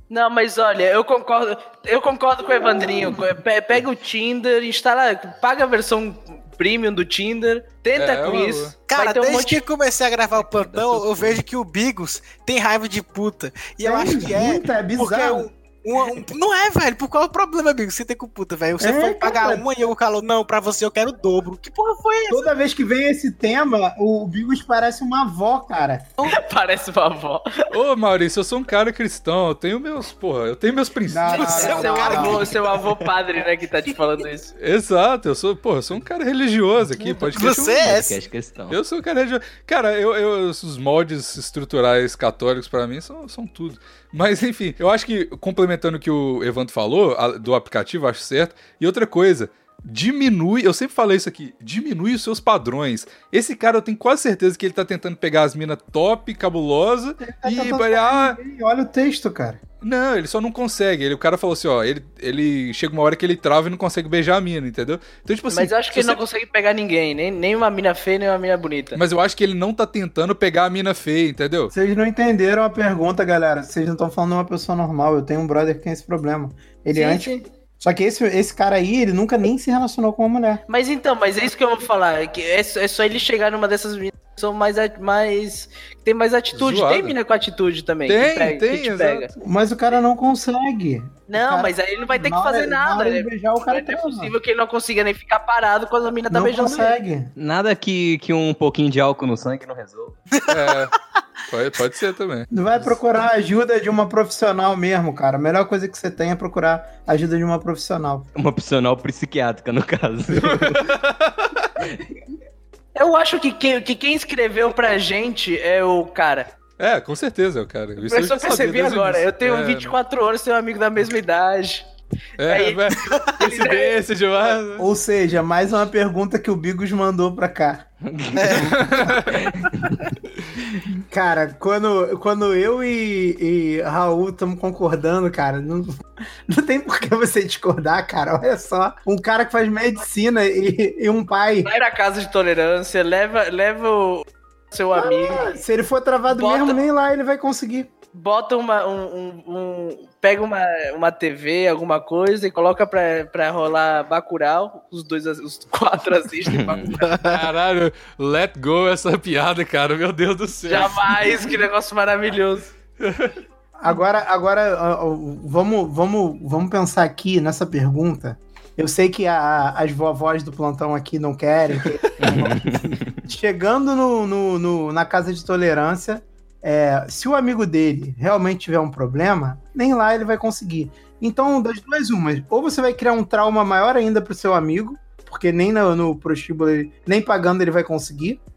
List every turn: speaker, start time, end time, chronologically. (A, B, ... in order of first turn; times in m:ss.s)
0:00.1-0:09.6 A
0:08.0-0:08.8 B
0:08.9-0:22.5 C
0:10.4-0:11.4 D
0:13.8-0:15.5 E
0:18.8-0:19.6 E
0:22.3-0:26.1 E
0:26.2-0:27.5 A
0:27.7-0:31.9 B
0:31.1-0:32.5 E
0:31.3-0:34.5 A
0:31.4-0:32.8 C
0:34.6-0:38.0 B
0:37.3-0:38.2 C
0:37.8-0:38.8 D
0:38.7-0:58.4 B
0:57.2-0:59.6 E
0:59.8-1:06.2 B
1:05.5-1:09.0 A
1:09.0-1:11.7 B
1:11.7-1:20.6 E
1:16.9-1:17.5 A
1:20.7-1:29.3 A
1:26.5-1:27.2 B
1:28.1-1:29.3 B
1:29.4-1:34.3 E
1:31.3-1:37.0 A
1:36.3-1:37.3 E
1:37.4-1:40.2 D
1:40.4-1:40.8 C
1:40.5-1:41.0 B
1:41.5-1:42.5 B
1:42.5-1:48.3 E
1:48.4-1:50.9 D
1:50.3-1:51.7 B
1:51.8-1:52.1 D
1:53.0-1:56.5 A
1:56.8-2:00.0 B
1:58.1-2:01.9 A
2:02.4-2:04.9 B
2:02.4-2:04.0 A
2:04.8-2:07.9 E
2:08.0-2:10.1 D
2:08.4-2:09.2 C
2:08.6-2:09.4 B
2:11.1-2:21.7 E
2:21.6-2:25.5 A
2:24.9-2:27.9 E
2:26.3-2:26.8 A
2:28.1-2:37.2 A
2:36.5-2:36.9 D
2:37.0-2:37.4 C
2:37.2-2:41.4 B
2:40.7-2:42.7 A
2:43.0-2:43.4 B
2:43.8-3:08.4 E
2:52.2-2:53.2 D